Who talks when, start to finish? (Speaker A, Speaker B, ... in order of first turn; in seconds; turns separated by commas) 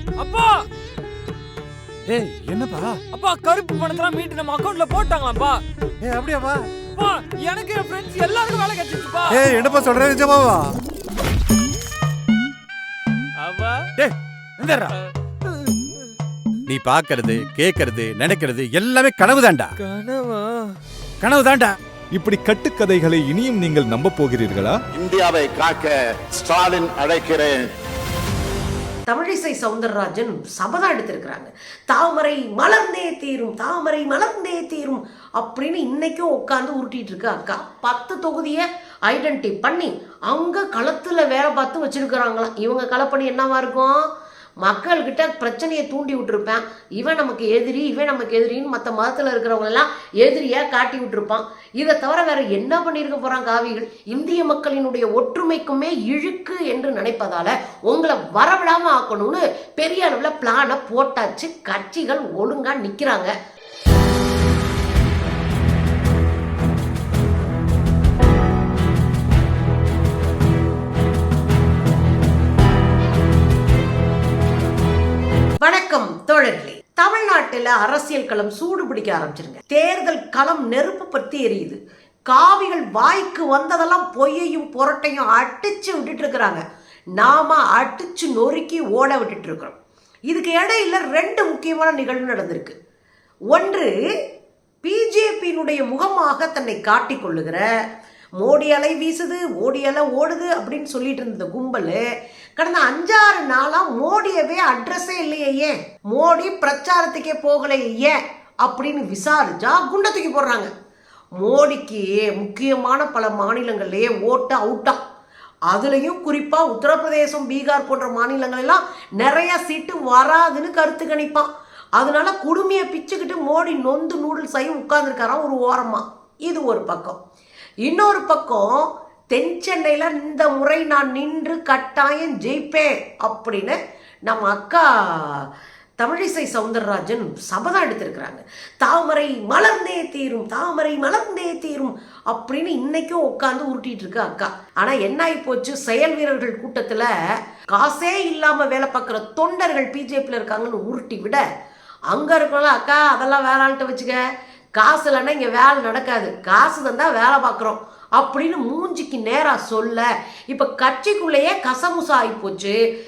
Speaker A: 0.2-0.6, Speaker B: 2.0-3.0, Speaker A: 3.1-5.6, Speaker B: 6.0-6.7, Speaker A: 6.9-9.5, Speaker B: 9.3-10.7, Speaker A: 13.4-13.9, Speaker B: 13.9-14.9, Speaker B: 16.6-19.7, Speaker A: 19.9-20.6, Speaker B: 21.2-21.8, Speaker C: 22.1-24.8, Speaker D: 24.9-27.7, Speaker E: 29.1-44.1, Speaker E: 44.6-63.3, Speaker E: 75.6-86.6, Speaker E: 87.2-89.8, Speaker E: 90.3-92.8, Speaker E: 93.5-93.9, Speaker E: 94.8-97.7, Speaker E: 98.4-102.0, Speaker E: 102.6-110.7, Speaker E: 111.4-115.0, Speaker E: 115.7-127.2, Speaker E: 127.8-135.5, Speaker E: 136.0-147.1, Speaker E: 147.7-151.4, Speaker E: 152.1-154.2, Speaker E: 154.8-162.8